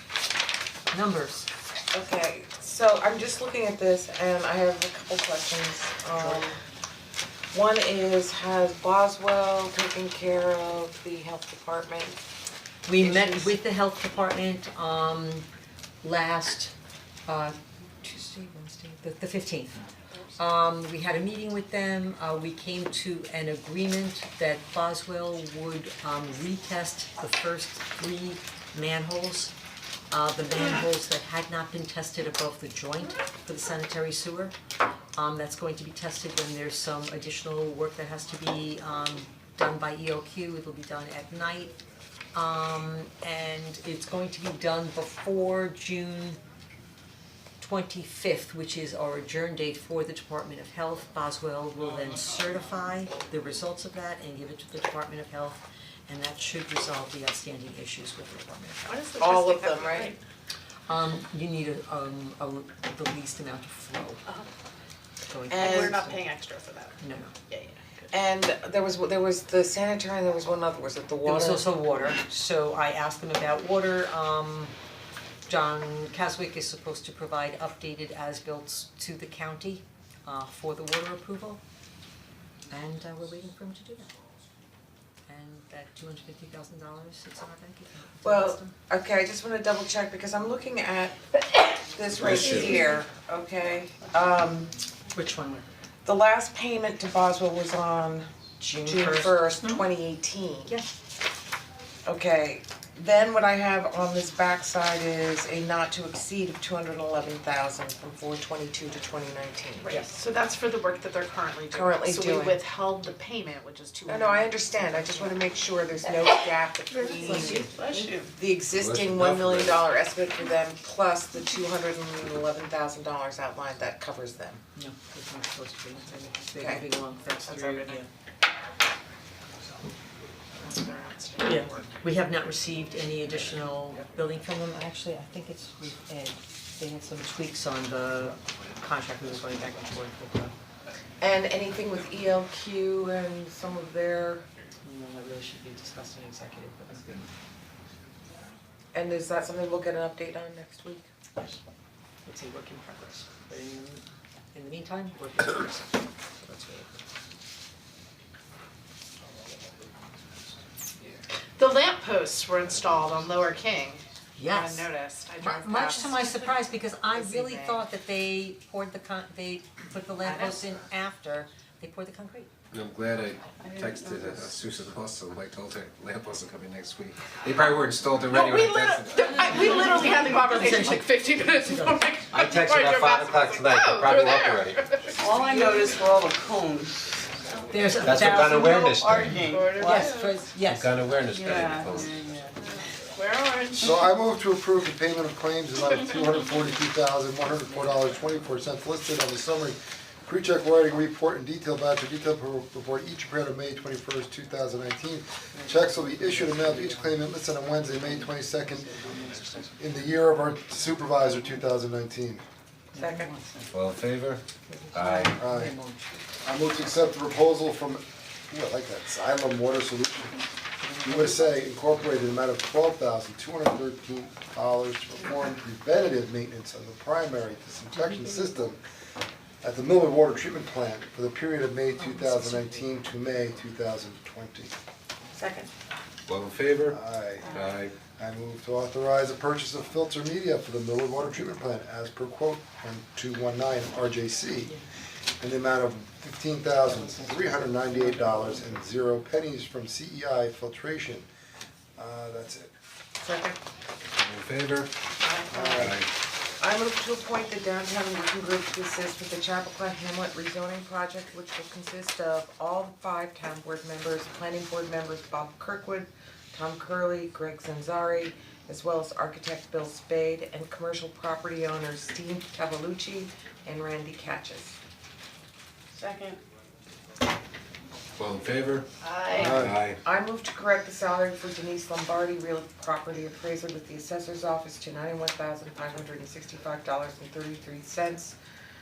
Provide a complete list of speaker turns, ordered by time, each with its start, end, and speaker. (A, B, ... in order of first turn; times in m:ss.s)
0:00.9-0:01.5 A
0:01.9-0:06.5 B
0:06.2-0:06.5 A
0:07.5-0:12.2 B
0:12.8-0:15.5 A
0:13.0-0:13.5 B
0:16.0-0:16.7 A
0:17.3-0:19.8 A
0:20.4-0:29.5 A
0:30.1-0:34.6 A
0:35.2-0:41.8 A
0:42.3-0:46.4 A
0:47.6-0:59.0 A
0:58.8-1:00.2 C
0:59.2-1:00.1 B
1:00.9-1:04.2 A
1:05.3-1:06.2 A
1:05.5-1:06.0 B
1:05.5-1:07.8 C
1:07.0-1:07.3 A
1:08.1-1:11.7 B
1:11.2-1:14.8 A
1:15.5-1:21.6 A
1:22.7-1:24.1 A
1:25.3-1:28.7 A
1:28.2-1:34.8 B
1:32.2-1:32.8 D
1:35.1-1:35.7 A
1:36.0-1:38.3 B
1:38.6-1:39.8 A
1:38.8-1:40.7 B
1:42.1-1:50.0 B
1:49.8-1:55.3 C
1:49.9-1:50.2 A
1:51.7-1:52.6 B
1:54.1-1:57.7 B
1:57.0-1:58.3 C
1:57.1-1:58.1 A
1:58.3-2:04.6 B
1:58.7-1:59.8 D
2:04.8-2:08.1 A
2:06.6-2:06.8 B
2:07.4-2:08.0 C
2:10.6-2:11.9 C
2:11.4-2:20.5 A
2:21.2-2:24.5 B
2:24.8-2:27.3 A
2:28.9-2:31.1 B
2:32.2-2:37.0 A
2:41.6-2:46.6 C
2:44.4-2:44.9 A
2:45.4-2:52.5 A
2:47.3-2:47.7 C
2:52.7-2:59.7 D
2:53.7-2:54.4 C
2:58.2-3:05.8 C
2:59.4-3:02.1 A
3:02.3-3:04.9 D
3:05.2-3:07.1 E
3:07.7-3:09.0 A
3:08.0-3:09.5 D
3:08.6-3:10.2 E
3:09.3-3:10.4 C
3:09.7-3:11.0 A
3:10.6-3:12.2 D
3:11.3-3:12.6 E
3:11.7-3:12.0 C
3:13.1-3:14.1 C
3:13.8-3:29.0 F
3:25.5-3:29.8 A
3:29.8-3:32.4 F
3:32.9-3:33.7 A
3:32.9-3:33.3 B
3:33.7-3:35.4 D
3:34.7-3:36.2 A
3:35.3-3:35.8 F
3:36.4-3:40.5 F
3:40.8-3:41.7 A
3:41.0-3:48.8 F
3:47.9-3:48.7 A
3:49.6-3:54.7 F
3:52.0-3:52.8 A
3:55.3-3:55.7 B
3:56.3-3:57.0 D
3:56.9-4:04.8 F
3:57.5-3:58.0 D
4:05.4-4:11.3 F
4:06.8-4:08.8 A
4:12.0-4:12.7 F
4:13.2-4:13.6 B
4:14.2-4:14.9 D
4:15.2-4:16.0 B
4:15.5-4:16.0 F
4:15.8-4:16.1 D
4:16.6-4:34.8 B
4:35.9-4:36.4 C
4:38.2-4:40.0 D
4:39.0-4:39.7 C
4:39.4-4:39.8 F
4:39.4-4:48.4 B